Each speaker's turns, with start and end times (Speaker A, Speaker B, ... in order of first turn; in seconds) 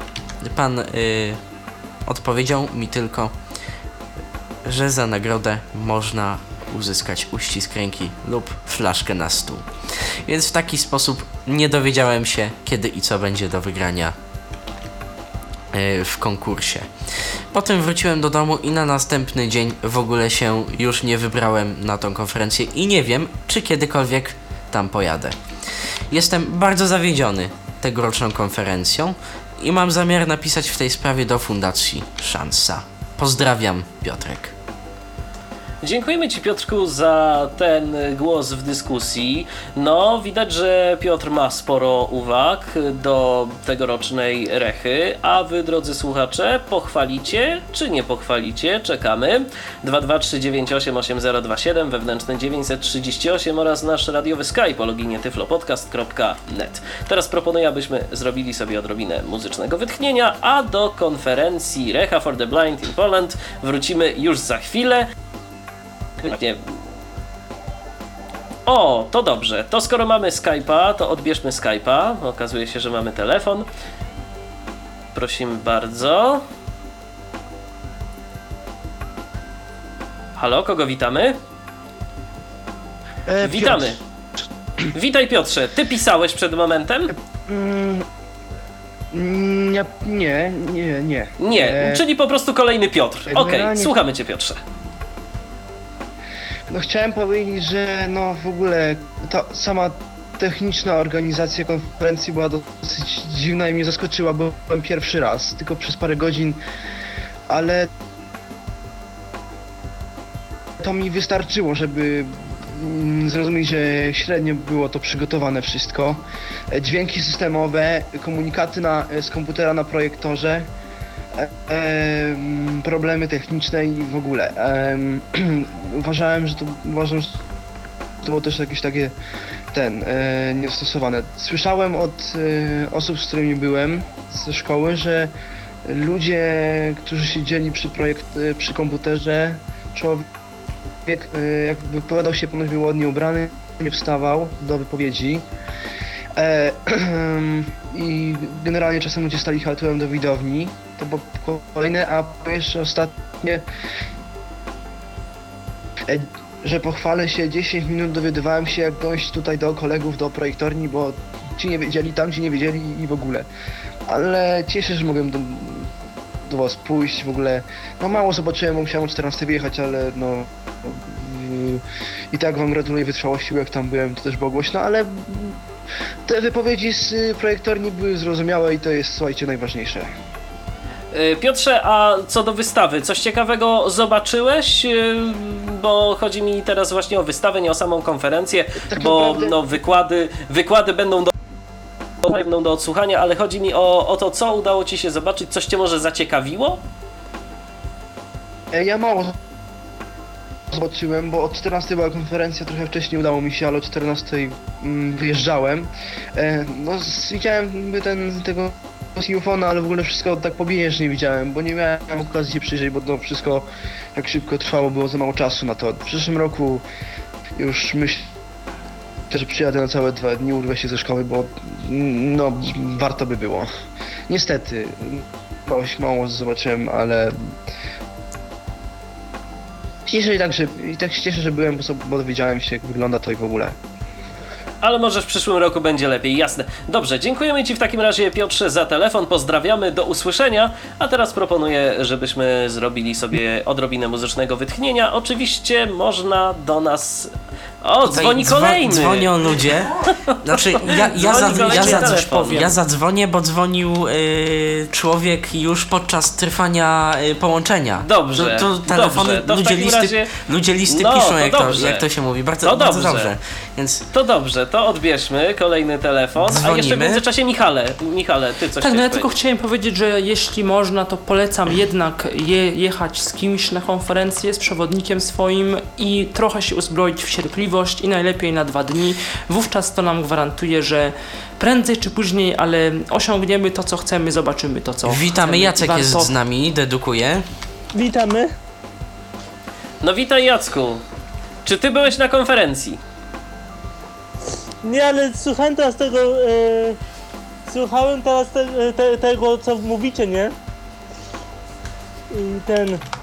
Speaker A: 0.4-1.4, 2.1-3.3, 4.7-14.2, 15.7-16.9, 17.5-25.4, 26.1-34.5, 248.0-264.0, 266.4-267.2, 285.1-287.4
Speaker B: 35.8-65.1, 66.2-66.6, 68.7-73.7, 75.2-76.4, 80.4-81.4, 83.4-84.0, 84.9-87.1, 91.4-94.6, 181.1-191.3, 192.2-196.8, 234.8-252.8, 258.0-260.3, 260.9-262.1, 262.6-263.3, 264.1-269.3, 290.0-291.0, 291.7-293.0
Speaker C: 83.3-84.0, 87.5-88.1, 89.1-92.0, 93.3-93.9, 96.7-106.6, 107.5-107.9, 110.8-120.7, 121.4-127.4, 128.2-129.1, 129.7-135.3, 135.9-140.3, 141.1-145.4, 146.4-153.6, 156.1-163.5, 164.1-165.9, 166.5-175.6, 176.3-180.1, 188.9-189.6, 198.7-199.3, 200.7-216.8, 217.6-218.3, 219.3-223.7, 224.3-227.6, 230.1-233.8
Speaker D: 251.7-252.0, 268.8-286.3
Speaker E: 287.9-288.5, 294.8-297.0, 297.7-300.5, 302.3-303.0